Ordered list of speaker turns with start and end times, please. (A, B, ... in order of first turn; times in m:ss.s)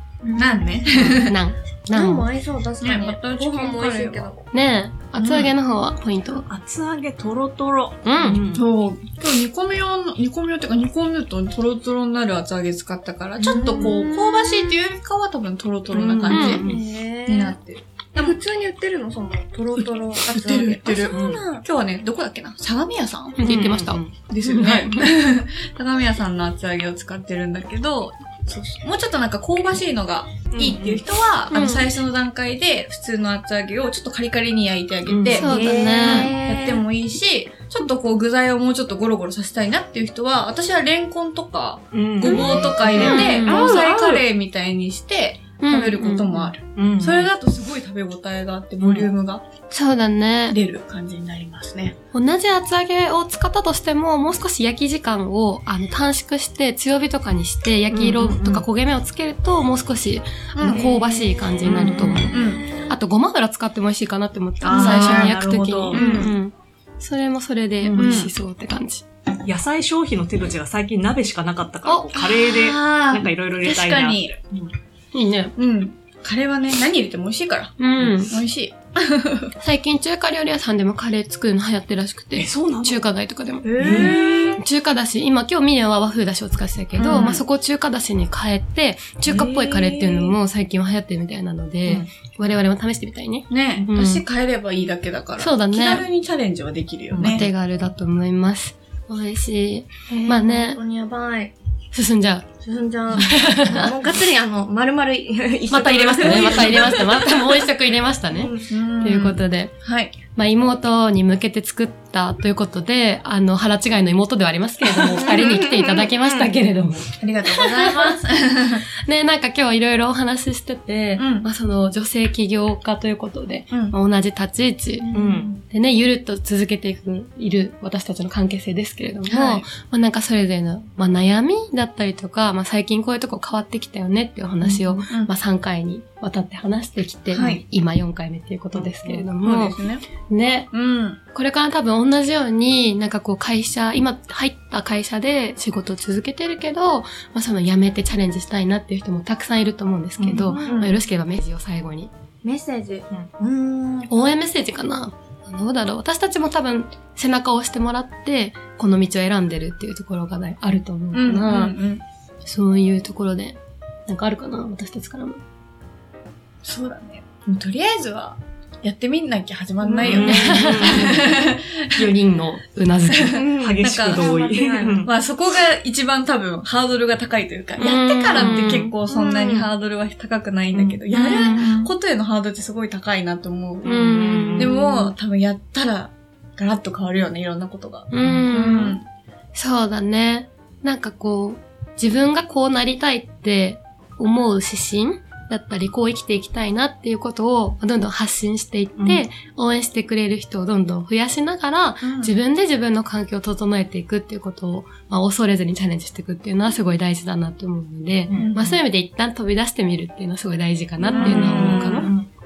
0:00.2-0:00.8 A
0:00.3-0:01.4 B
0:00.9-0:02.3 C
0:01.9-0:04.4 A
0:02.8-0:04.4 B
0:04.5-0:06.5 C
0:05.2-0:05.5 B
0:06.5-0:08.7 D
0:08.0-0:08.4 C
0:08.5-0:18.4 B
0:13.4-0:14.8 A
0:16.2-0:17.6 A
0:16.2-0:16.6 C
0:16.3-0:16.8 D
0:18.1-0:21.6 A
0:19.8-0:23.4 B
0:21.1-0:21.4 D
0:23.4-0:25.1 C
0:23.4-0:24.0 D
0:24.3-0:49.5 B
0:30.5-0:31.0 D
0:31.5-0:31.9 C
0:35.0-0:35.5 D
0:35.3-0:36.3 C
0:35.4-0:36.8 A
0:41.9-0:44.2 D
0:42.3-0:43.8 A
0:42.3-0:43.7 C
0:45.6-0:46.5 C
0:46.7-0:47.3 D
0:48.8-0:49.1 D
0:49.7-0:50.6 C
0:50.5-0:52.0 B
0:52.1-1:09.0 C
0:57.9-0:58.6 D
1:00.6-1:00.9 B
1:01.6-1:02.3 D
1:02.3-1:02.7 B
1:04.6-1:06.2 D
1:04.7-1:06.3 B
1:07.8-1:08.3 D
1:07.9-1:08.3 B
1:09.4-1:14.7 D
1:11.8-1:12.1 C
1:12.1-1:14.4 B
1:15.1-1:15.5 C
1:15.6-1:17.8 B
1:17.8-1:18.3 C
1:18.0-1:18.3 D
1:18.3-1:19.5 B
1:19.6-1:34.2 C
1:22.4-1:23.1 D
1:23.6-1:24.5 A
1:23.8-1:24.4 B
1:23.8-1:24.2 D
1:27.0-1:27.4 B
1:29.3-1:30.4 B
1:33.5-1:37.4 B
1:35.4-1:36.0 C
1:37.1-1:37.5 D
1:37.2-1:40.8 C
1:40.1-1:41.5 A
1:41.9-1:42.5 C
1:42.6-1:47.1 A
1:43.1-1:44.0 C
1:45.7-1:49.8 C
1:46.2-1:47.1 B
1:48.3-1:48.6 A
1:48.7-1:50.2 B
1:50.3-1:58.1 C
1:55.2-1:55.8 A
1:57.2-1:58.8 B
1:58.9-2:05.1 C
2:01.2-2:01.4 B
2:03.7-2:03.9 B
2:05.1-2:05.5 B
2:05.1-2:05.5 D
2:05.6-2:20.7 C
2:09.3-2:09.7 B
2:14.6-2:15.3 B
2:17.3-2:17.6 B
2:18.8-2:20.0 B
2:18.8-2:19.1 D
2:20.7-2:21.2 B
2:21.3-2:32.1 C
2:30.2-2:30.6 D
2:30.5-2:31.0 A
2:32.4-2:34.1 A
2:34.1-2:41.7 C
2:41.1-2:42.0 B
2:42.4-2:45.4 C
2:46.6-2:52.1 B
2:49.8-2:50.9 A
2:50.0-2:51.2 D
2:50.2-2:53.4 C
2:53.1-2:54.3 B
2:53.3-2:55.1 A
2:53.6-2:55.1 D
2:55.0-3:03.9 B
2:57.8-2:58.9 C
2:58.3-2:58.9 D
2:59.1-2:59.7 A
3:00.7-3:01.0 D
3:01.1-3:01.6 A
3:01.3-3:01.6 C
3:03.8-3:05.1 C
3:03.8-3:04.8 D
3:04.5-3:09.1 B
3:08.1-3:09.0 C
3:08.2-3:08.5 D
3:09.5-3:32.1 C
3:19.0-3:19.2 D
3:22.0-3:22.3 B
3:28.3-3:28.8 B
3:31.1-3:32.1 B
3:31.1-3:32.3 D
3:31.2-3:31.5 A